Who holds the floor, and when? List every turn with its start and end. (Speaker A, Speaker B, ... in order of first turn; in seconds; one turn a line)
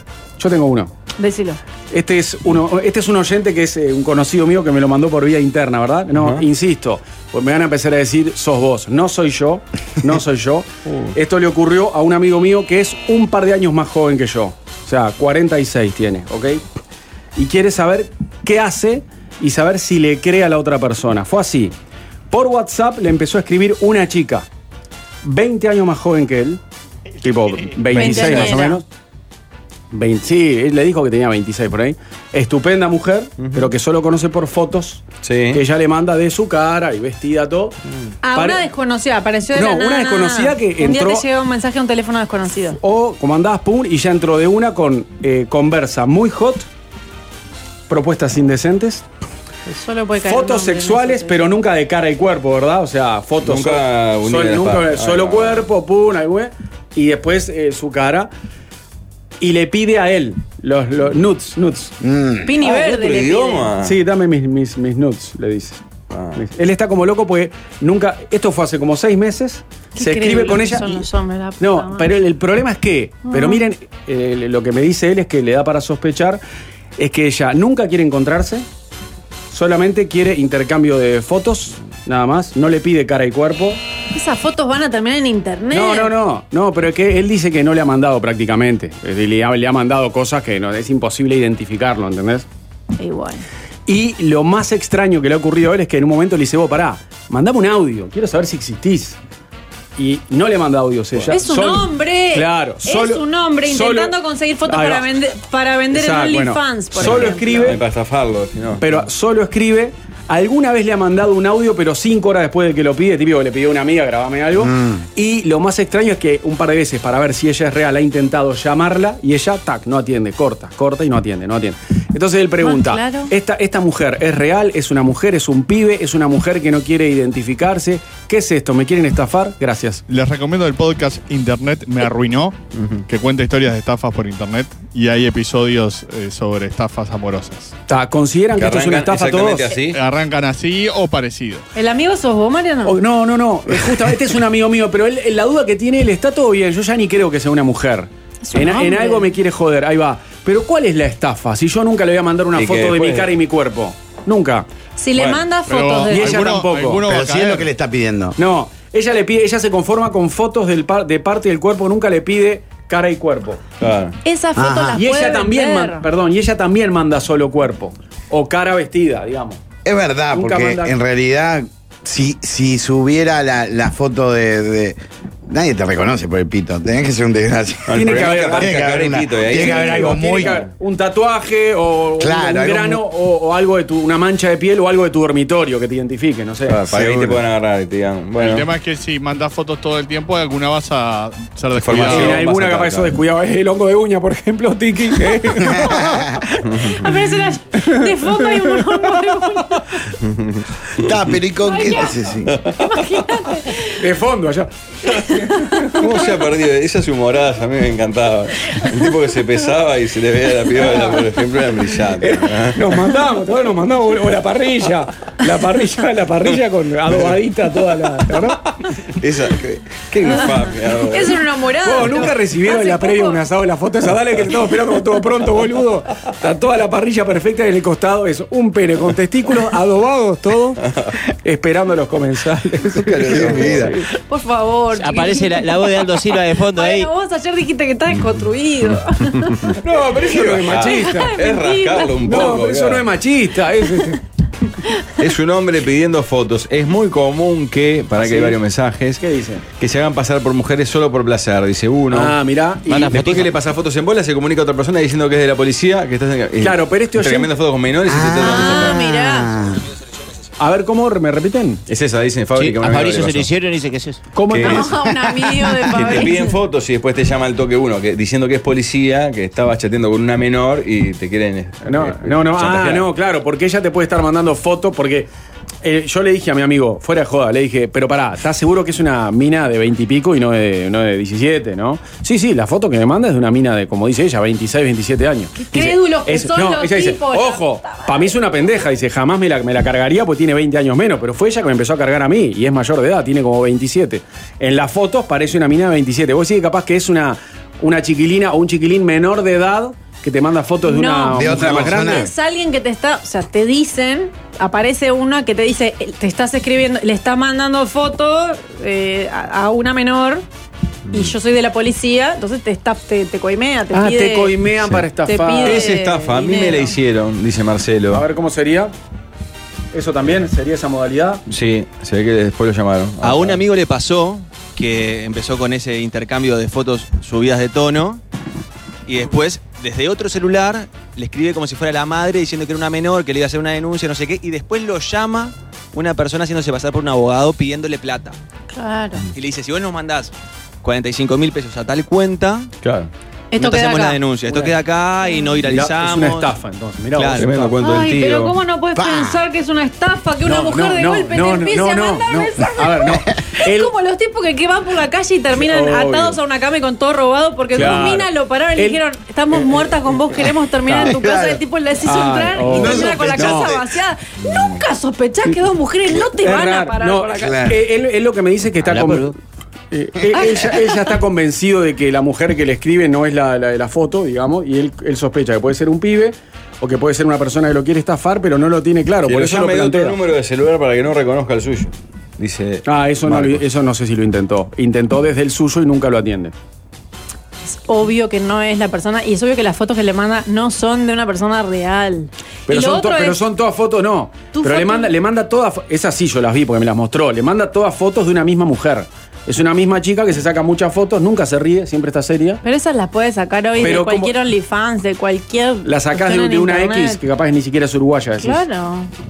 Speaker A: 0.4-0.9
Speaker B: 1.2-1.6
Speaker A: 1.9-16.6
Speaker C: 6.1-6.4
Speaker A: 17.4-21.7
Speaker A: 22.3-24.5
Speaker A: 25.2-26.6
Speaker A: 27.2-28.8
Speaker C: 27.9-28.6
Speaker B: 27.9-28.8
Speaker A: 29.9-37.8
Speaker C: 33.4-33.7
Speaker C: 35.2-35.6
Speaker B: 38.2-42.8
Speaker A: 38.3-38.7
Speaker A: 39.5-41.2
Speaker A: 42.8-46.7
Speaker A: 47.9-49.0
Speaker B: 49.7-51.5
Speaker A: 50.2-58.3
Speaker C: 53.4-55.7
Speaker A: 59.4-62.0
Speaker D: 62.0-62.6
Speaker B: 62.4-63.7
Speaker C: 62.6-64.0
Speaker A: 63.8-65.8
Speaker C: 66.1-66.4
Speaker A: 66.3-71.0
Speaker B: 70.0-72.1
Speaker A: 71.6-76.4
Speaker B: 73.3-73.6
Speaker A: 77.0-78.6
Speaker A: 79.5-83.8
Speaker B: 84.1-86.1
Speaker A: 85.7-92.5
Speaker B: 93.0-93.4
Speaker A: 93.9-99.2
Speaker A: 100.0-105.0
Speaker B: 101.3-107.8
Speaker A: 105.9-107.8
Speaker C: 107.0-109.0
Speaker A: 108.8-130.0
Speaker D: 114.6-115.0
Speaker B: 122.6-123.3
Speaker E: 130.1-137.7
Speaker C: 132.8-133.0
Speaker A: 137.9-139.7
Speaker C: 138.6-140.0
Speaker E: 139.9-141.6
Speaker B: 141.7-143.0
Speaker A: 142.8-154.7
Speaker B: 148.4-149.3
Speaker C: 152.5-153.3
Speaker B: 155.0-156.5
Speaker C: 155.1-155.4
Speaker E: 155.7-157.7
Speaker A: 156.1-157.0
Speaker D: 157.1-158.4
Speaker A: 158.4-163.6
Speaker C: 163.8-164.2
Speaker B: 164.2-166.0
Speaker D: 164.5-165.0
Speaker A: 164.9-169.6
Speaker D: 169.8-180.6
Speaker A: 170.3-170.9
Speaker C: 177.9-180.6
Speaker A: 177.9-178.8
Speaker A: 179.5-186.8
Speaker D: 182.2-183.0
Speaker C: 186.7-188.7
Speaker D: 186.9-187.4
Speaker E: 188.4-192.4
Speaker C: 191.8-193.2
Speaker A: 192.0-196.3
Speaker D: 195.7-196.4
Speaker C: 196.6-197.0
Speaker B: 196.9-200.0
Speaker A: 197.7-198.8
Speaker C: 200.2-201.3
Speaker D: 200.9-202.5
Speaker B: 201.6-202.2
Speaker C: 202.5-202.9
Speaker B: 202.8-204.0
Speaker A: 204.0-206.0
Speaker C: 205.9-213.0
Speaker A: 212.2-218.8
Speaker C: 219.2-221.5
Speaker B: 220.3-223.4
Speaker A: 221.8-230.8
Speaker C: 230.9-231.1
Speaker A: 231.4-234.0
Speaker C: 233.0-233.9
Speaker D: 233.3-233.9
Speaker B: 234.3-239.7
Speaker F: 234.9-237.1
Speaker A: 239.7-241.3
Speaker C: 240.3-243.1
Speaker B: 240.8-242.2
Speaker A: 242.2-244.2
Speaker C: 245.2-249.2
Speaker A: 248.2-248.6
Speaker A: 249.2-249.6
Speaker C: 249.8-252.4
Speaker A: 252.1-253.3
Speaker F: 252.9-253.5
Speaker C: 253.1-259.0
Speaker A: 256.6-257.5
Speaker D: 258.1-259.8
Speaker B: 258.4-259.5
Speaker A: 260.6-261.8
Speaker C: 261.9-263.5
Speaker F: 262.6-264.2
Speaker A: 264.3-264.9
Speaker C: 264.5-265.0
Speaker B: 264.6-266.5
Speaker C: 265.7-273.1
Speaker A: 271.8-275.3
Speaker A: 275.8-302.3
Speaker B: 285.6-288.4
Speaker B: 300.8-310.4
Speaker D: 301.3-302.3
Speaker C: 311.1-311.3
Speaker B: 311.1-314.6
Speaker A: 313.9-315.9
Speaker B: 315.2-316.9
Speaker C: 315.6-318.2
Speaker A: 318.1-318.9
Speaker A: 319.9-321.4
Speaker C: 321.5-323.6
Speaker G: 323.2-328.2
Speaker G: 329.1-338.4
Speaker B: 338.7-339.3
Speaker G: 339.3-342.7
Speaker C: 342.8-343.1
Speaker B: 343.5-344.2
Speaker G: 343.5-346.5
Speaker B: 345.2-345.6
Speaker A: 345.7-347.8
Speaker G: 347.2-347.4
Speaker C: 347.3-348.6
Speaker B: 347.8-367.6
Speaker D: 348.9-349.4
Speaker A: 350.4-353.9
Speaker A: 355.5-356.4
Speaker A: 357.7-359.0
Speaker A: 359.5-359.8
Speaker A: 360.8-361.2
Speaker D: 361.0-361.6
Speaker A: 362.0-363.7
Speaker D: 362.6-363.9
Speaker C: 364.4-364.8
Speaker A: 366.4-369.3
Speaker D: 367.4-367.8
Speaker F: 368.9-369.3
Speaker A: 369.9-380.2
Speaker B: 370.5-370.8
Speaker C: 379.2-383.6
Speaker A: 382.8-386.5
Speaker B: 387.7-393.4
Speaker A: 392.7-402.6
Speaker B: 394.5-395.1
Speaker B: 402.6-407.2
Speaker A: 403.8-404.3
Speaker A: 405.8-408.6
Speaker B: 408.4-409.1